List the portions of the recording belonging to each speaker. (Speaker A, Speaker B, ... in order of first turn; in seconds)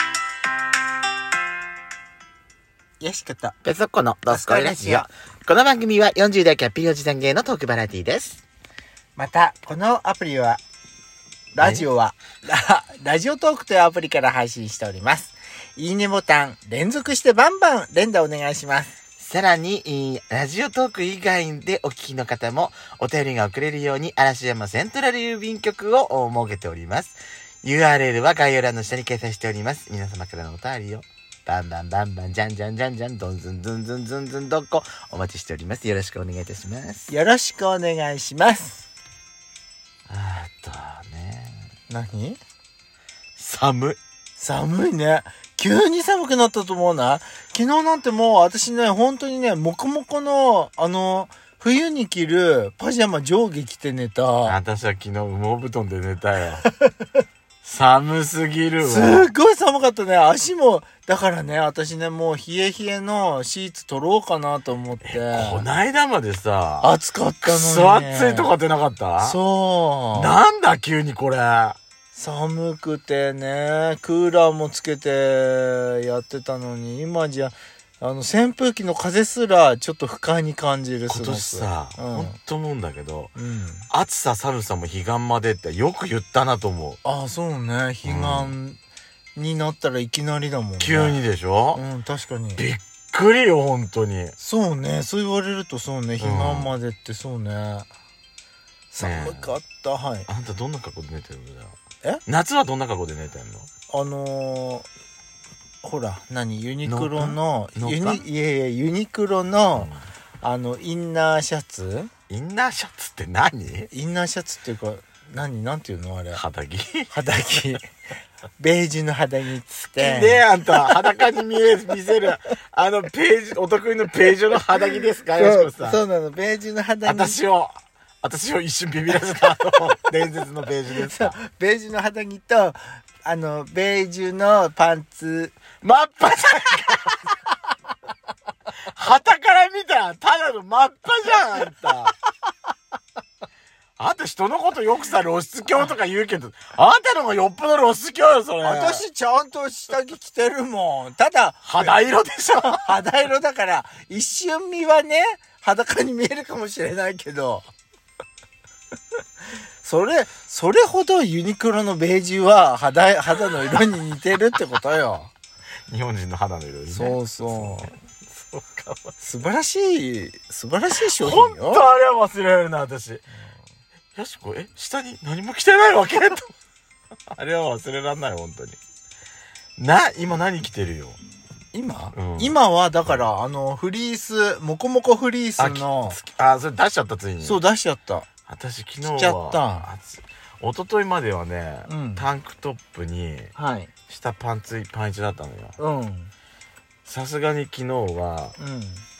Speaker A: 3.0-3.5, 4.3-5.1, 9.2-10.6, 11.5-18.9, 37.1-38.9, 41.9-42.4, 44.4-54.6, 56.6-56.9, 58.8-65.7, 66.8-68.5, 69.2-70.4, 72.1-82.3, 83.3-83.9, 87.0-88.8, 89.3-91.2, 91.7-92.6, 94.4-97.9, 98.9-100.3, 103.9-104.9, 105.8-112.1, 113.9-116.4, 117.1-117.8, 118.6-121.0, 125.3-127.4, 130.9-135.6, 148.6-151.9, 152.6-157.7, 159.8-165.3, 166.9-167.9, 169.2-171.9, 181.7-186.2, 187.4-188.3, 189.0-189.9, 191.8-192.2, 193.5-193.9, 195.8-196.3, 198.6-199.1
Speaker B: 3.6-8.4, 11.6-11.9, 19.2-37.1, 40.1-41.7, 43.4-44.0, 54.4-56.6, 57.6-59.3, 65.0-66.9, 67.4-69.4, 70.1-71.8, 81.1-83.3, 83.9-87.0, 88.0-88.5, 90.8-91.8, 92.6-94.3, 96.2-96.7, 99.0-99.5, 100.3-103.7, 106.8-108.2, 109.7-110.1, 112.3-113.9, 116.3-117.1, 120.0-126.0, 127.0-131.3, 135.8-137.2, 138.9-142.1, 144.0-149.0, 151.6-152.9, 165.9-169.1, 171.1-173.2, 174.1-176.5, 177.3-178.8, 179.8-181.2, 182.1-183.2, 185.6-187.6, 188.5-193.5, 194.1-195.8, 197.0-198.5